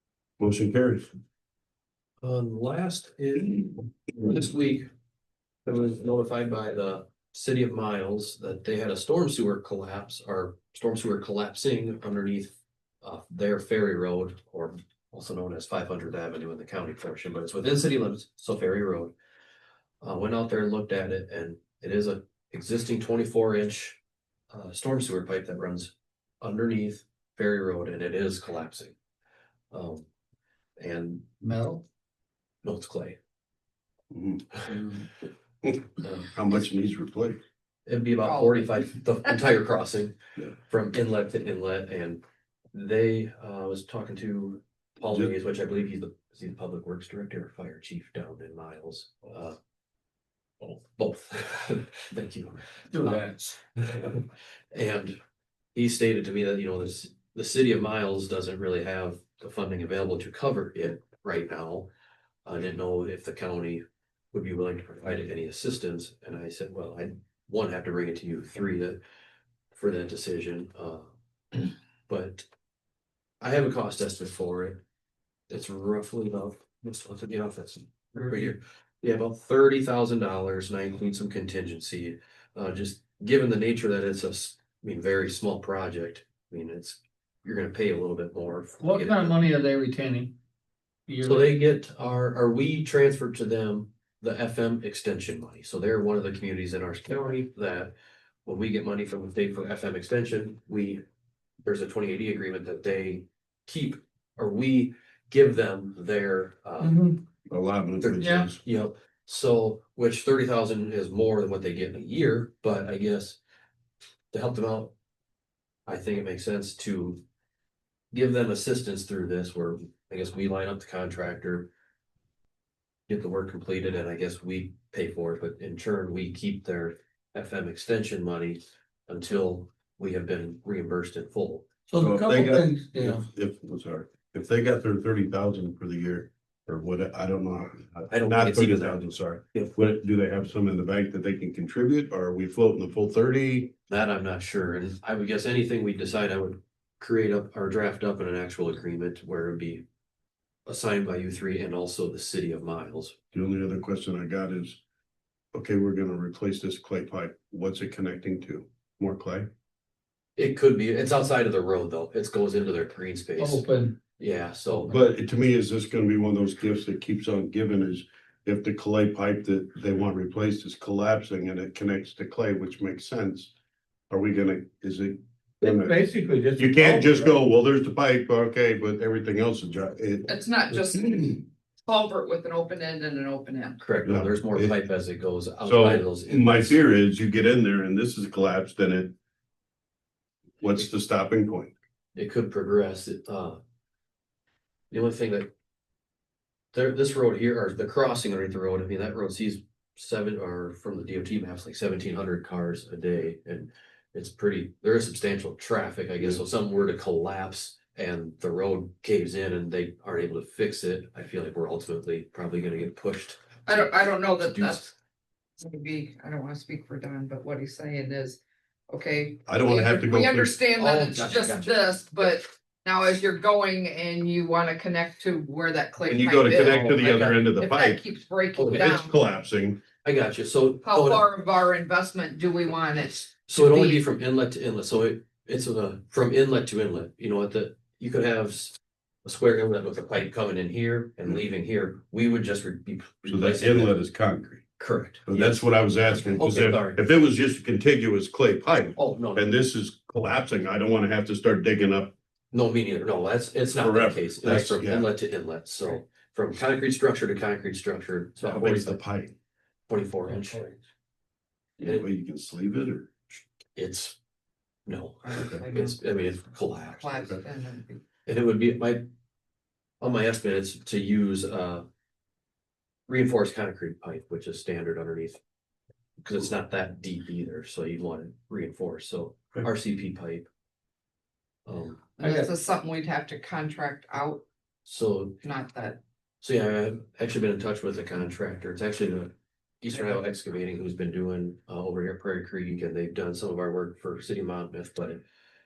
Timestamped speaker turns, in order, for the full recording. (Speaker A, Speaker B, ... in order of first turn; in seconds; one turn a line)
Speaker A: 0.4-1.0
Speaker B: 2.2-4.9
Speaker B: 5.7-19.1
Speaker B: 20.0-24.0
Speaker B: 24.5-28.9
Speaker B: 29.7-30.0
Speaker B: 30.8-31.2
Speaker C: 31.4-31.8
Speaker B: 32.6-33.1
Speaker A: 34.1-34.6
Speaker C: 34.7-35.0
Speaker A: 35.6-37.4
Speaker B: 36.0-36.3
Speaker B: 37.9-40.1
Speaker D: 38.2-38.6
Speaker B: 40.7-42.2
Speaker B: 42.7-49.5
Speaker B: 50.6-55.2
Speaker C: 52.9-53.4
Speaker B: 55.7-61.9
Speaker B: 62.5-69.0
Speaker B: 69.7-72.5
Speaker B: 73.4-74.8
Speaker B: 75.5-89.4
Speaker C: 78.2-78.5
Speaker C: 88.8-90.3
Speaker C: 91.1-91.5
Speaker B: 91.2-97.9
Speaker B: 98.5-101.0
Speaker B: 101.6-107.2
Speaker C: 106.8-107.2
Speaker A: 107.5-108.6
Speaker B: 108.0-113.4
Speaker D: 108.2-108.5
Speaker B: 114.3-114.9
Speaker B: 115.9-117.2
Speaker B: 118.1-121.7
Speaker B: 123.1-131.7
Speaker C: 131.9-133.3
Speaker A: 132.0-143.7
Speaker B: 138.1-139.7
Speaker B: 143.9-149.8
Speaker B: 150.7-153.1
Speaker A: 153.3-154.8
Speaker A: 155.5-159.5
Speaker B: 160.4-164.9
Speaker C: 163.4-164.0
Speaker A: 164.9-173.5
Speaker A: 174.1-176.0
Speaker C: 175.6-177.4
Speaker A: 176.6-181.2
Speaker D: 180.3-183.8
Speaker B: 183.8-186.8
Speaker A: 184.0-184.8
Speaker A: 185.6-189.1
Speaker A: 190.6-191.7
Speaker B: 192.1-193.6
Speaker B: 194.9-195.5
Speaker B: 196.7-214.9
Speaker D: 213.7-214.9
Speaker D: 215.6-229.1
Speaker A: 219.5-220.5
Speaker B: 220.8-221.7
Speaker A: 226.1-228.0
Speaker B: 226.6-227.2
Speaker B: 228.6-229.0
Speaker A: 228.7-229.8
Speaker B: 230.0-231.2
Speaker D: 230.8-234.0
Speaker B: 233.5-244.0
Speaker A: 243.2-244.6
Speaker B: 244.8-247.0
Speaker A: 245.2-252.1
Speaker B: 248.9-249.6
Speaker B: 252.5-259.0
Speaker A: 253.8-255.1
Speaker A: 258.4-259.3
Speaker B: 259.9-260.8
Speaker A: 261.8-263.3
Speaker B: 263.8-264.1
Speaker B: 264.9-267.2
Speaker D: 265.2-266.0
Speaker A: 265.3-265.6
Speaker D: 266.9-268.0
Speaker B: 268.2-269.0
Speaker B: 270.0-271.8
Speaker B: 273.1-275.4
Speaker B: 276.2-280.5
Speaker B: 281.6-282.1
Speaker D: 282.2-284.4
Speaker C: 282.2-282.5
Speaker B: 284.8-285.4
Speaker D: 285.4-286.0
Speaker B: 286.4-295.2